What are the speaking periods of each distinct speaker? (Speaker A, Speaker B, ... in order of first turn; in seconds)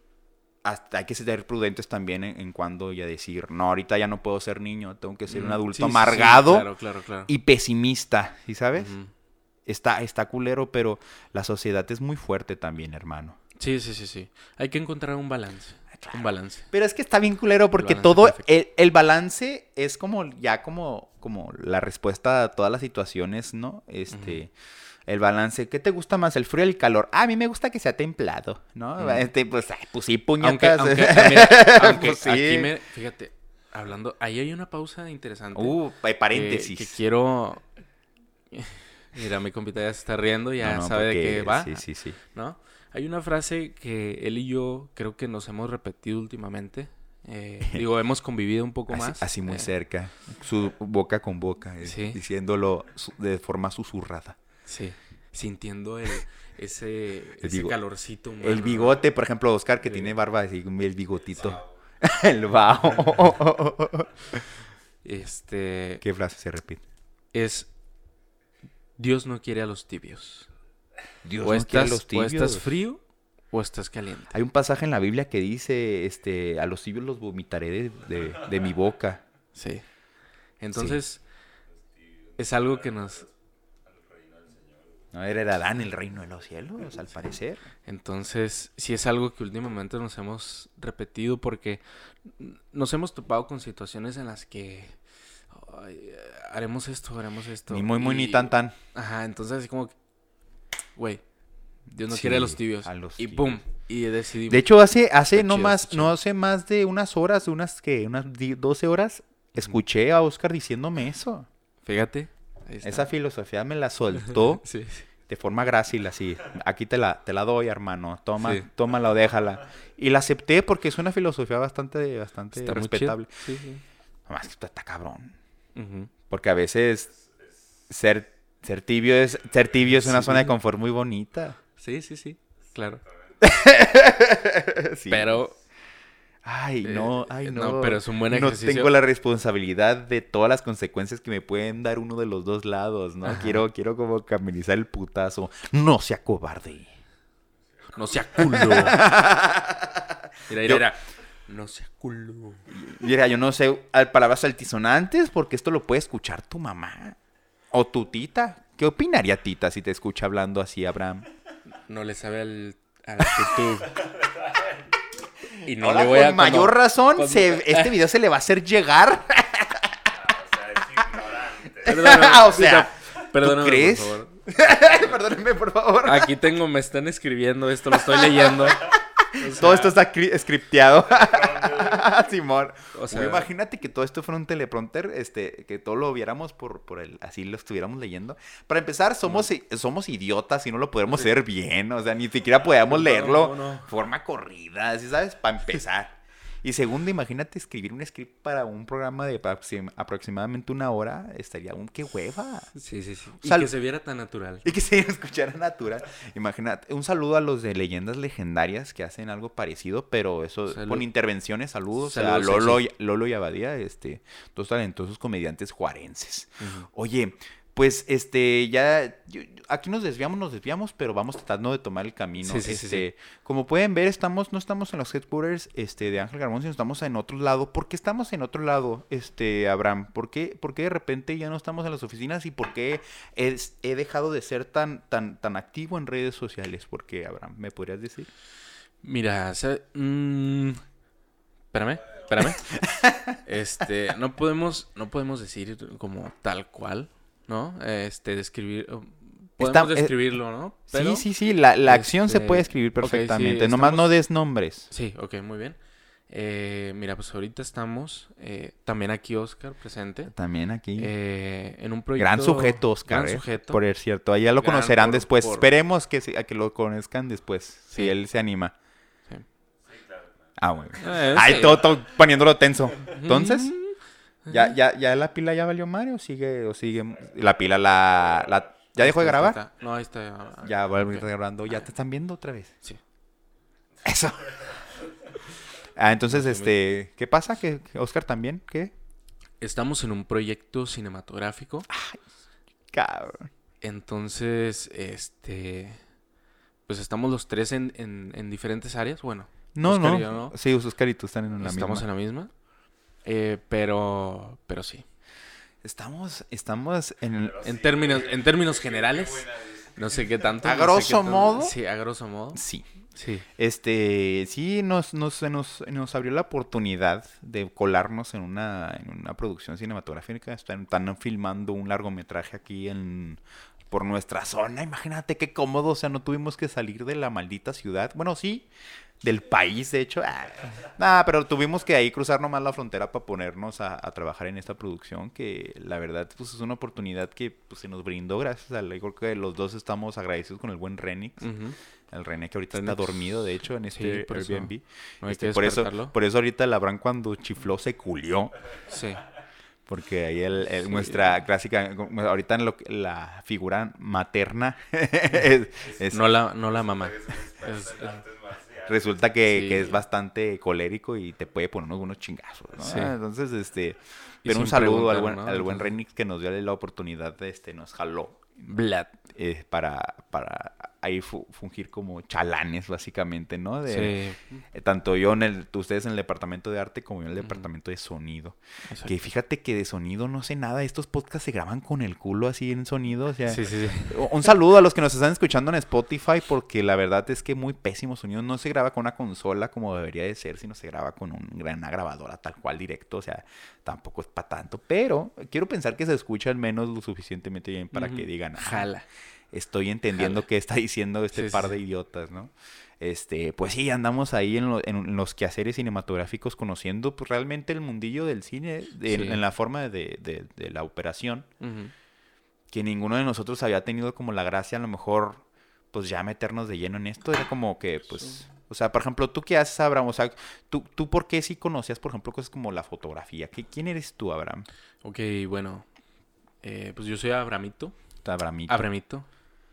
Speaker A: 0.6-6.7, 7.3-8.9, 9.7-13.4, 16.0-24.5, 25.1-32.7, 35.5-37.0, 40.6-42.2, 48.9-54.4, 57.4-57.8, 58.4-64.5, 66.0-66.8, 71.2-72.6, 74.3-79.2, 80.7-81.0, 85.1-87.7, 97.7-98.8, 102.1-103.6, 104.5-111.5, 112.8-114.7, 115.3-123.3, 124.3-125.4, 126.3-127.1, 127.9-131.6, 133.4-135.4, 136.4-146.9, 148.5-150.8, 152.7-157.2, 157.7-161.3, 163.2-163.6, 165.7-169.9, 171.8-176.3, 177.9-179.0, 179.5-202.7, 203.4-203.7, 204.6-238.3, 242.4-243.4, 249.6-250.3, 250.9-254.9, 260.3-261.1, 262.2-268.8, 270.6-273.7, 274.5-279.6, 280.6-282.8, 284.0-284.8, 286.0-288.9, 291.9-292.2, 292.9-293.5, 299.8-302.1, 305.8-307.6, 310.6-311.7, 312.6-312.8, 313.6-328.7, 329.2-341.6, 342.1-348.6, 349.9-356.3, 358.9-368.7, 369.2-374.2, 374.7-398.9, 399.5-411.5, 412.7-424.7, 428.2-428.8
Speaker B: 5.3-7.3, 8.8-9.1, 13.6-16.7, 17.8-18.5, 24.1-24.4, 29.0-29.3, 30.4-35.8, 36.3-37.6, 38.5-49.7, 51.8-52.2, 54.7-59.0, 59.8-60.1, 65.0-66.0, 67.3-67.7, 69.0-70.5, 71.4-74.4, 79.5-79.8, 80.6-81.2, 82.4-83.2, 87.9-95.0, 95.5-100.0, 101.0-101.2, 101.9-104.7, 105.3-106.1, 111.9-113.1, 114.2-115.1, 118.4-118.7, 122.5-123.8, 125.8-126.1, 129.9-130.6, 131.8-133.0, 135.1-135.6, 136.8-138.9, 143.2-143.6, 147.9-149.0, 150.5-152.6, 161.7-164.1, 165.6-167.9, 171.8-174.3, 176.0-179.9, 182.9-183.5, 192.8-193.9, 202.8-204.7, 210.7-211.1, 212.0-212.8, 216.6-216.9, 222.4-223.1, 239.0-240.8, 241.7-242.6, 243.5-251.3, 251.9-254.1, 254.9-260.3, 261.0-263.8, 264.6-265.7, 271.0-271.8, 273.1-274.7, 279.0-281.2, 286.3-286.7, 289.6-291.9, 293.8-296.0, 296.9-300.6, 301.6-302.5, 303.2-305.1, 307.6-312.6, 313.1-313.5, 341.4-341.8, 342.7-343.2, 343.9-346.1, 348.9-349.3, 350.9-351.2, 356.1-358.2, 359.5-360.0, 362.8-363.1, 364.4-365.9, 368.7-369.2, 373.9-374.6, 377.4-377.7, 378.9-379.1, 383.5-384.3, 397.9-399.1, 400.1-400.4, 401.4-401.8, 409.1-409.4, 411.6-411.9, 425.0-425.9, 426.6-428.0, 428.7-429.3
Speaker C: 61.3-61.7, 81.8-83.3, 83.8-85.0, 127.1-127.8, 133.0-133.8, 163.9-164.8, 170.1-172.0, 181.2-182.2, 269.8-270.6, 277.2-278.6, 280.4-280.7, 284.5-285.0, 307.4-310.6, 355.8-359.4